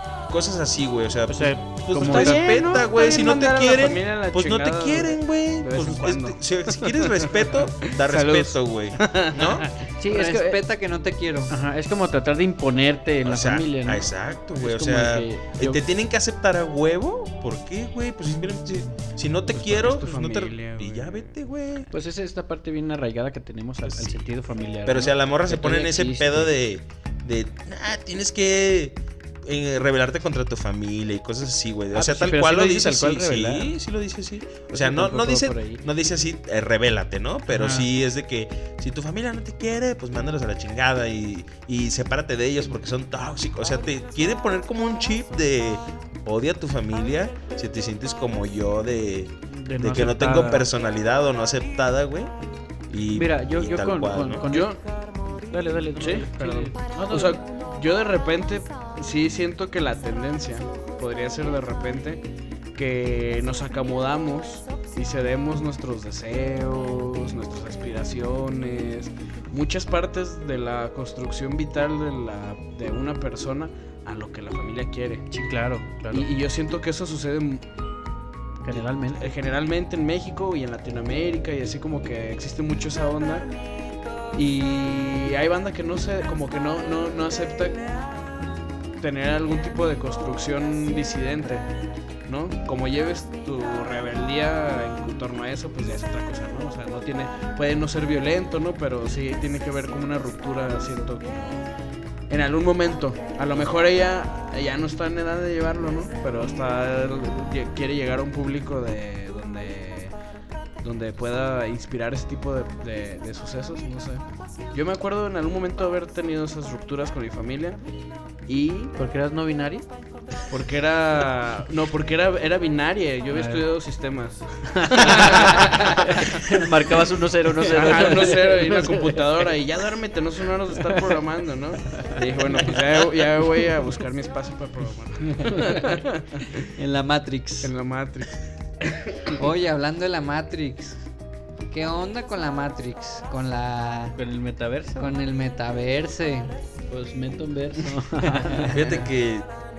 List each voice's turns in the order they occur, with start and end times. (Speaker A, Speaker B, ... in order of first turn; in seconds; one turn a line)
Speaker A: 0.3-9.7
Speaker B: 1.3-2.8
Speaker C: 2.0-9.7
Speaker B: 10.0-10.6
Speaker D: 10.1-11.5
Speaker B: 11.5-15.8
Speaker A: 13.2-21.9
Speaker C: 19.5-21.3
Speaker B: 21.9-26.5
Speaker A: 23.9-24.3
Speaker A: 24.9-52.3
Speaker B: 31.9-33.7
Speaker B: 34.7-35.8
Speaker B: 37.5-37.9
Speaker B: 49.5-50.7
Speaker A: 52.9-54.4
Speaker B: 53.1-54.8
Speaker C: 54.5-54.8
Speaker B: 55.3-57.4
Speaker C: 56.0-62.2
Speaker C: 62.8-75.3
Speaker B: 75.3-76.3
Speaker C: 76.1-77.7
Speaker B: 78.6-79.3
Speaker C: 78.7-83.5
Speaker C: 84.3-87.8
Speaker C: 89.0-91.7
Speaker C: 92.3-101.6
Speaker C: 102.3-110.1
Speaker C: 110.8-117.8
Speaker C: 118.5-118.9
Speaker B: 119.0-119.8
Speaker C: 120.5-126.5
Speaker B: 123.3-123.7
Speaker B: 124.7-129.5
Speaker C: 127.6-136.6
Speaker B: 130.8-131.2
Speaker B: 135.5-135.8
Speaker D: 136.8-137.7
Speaker C: 137.6-138.4
Speaker D: 139.4-141.0
Speaker D: 141.7-144.2
Speaker B: 144.2-145.1
Speaker D: 145.0-146.5
Speaker B: 146.9-148.8
Speaker A: 148.7-149.5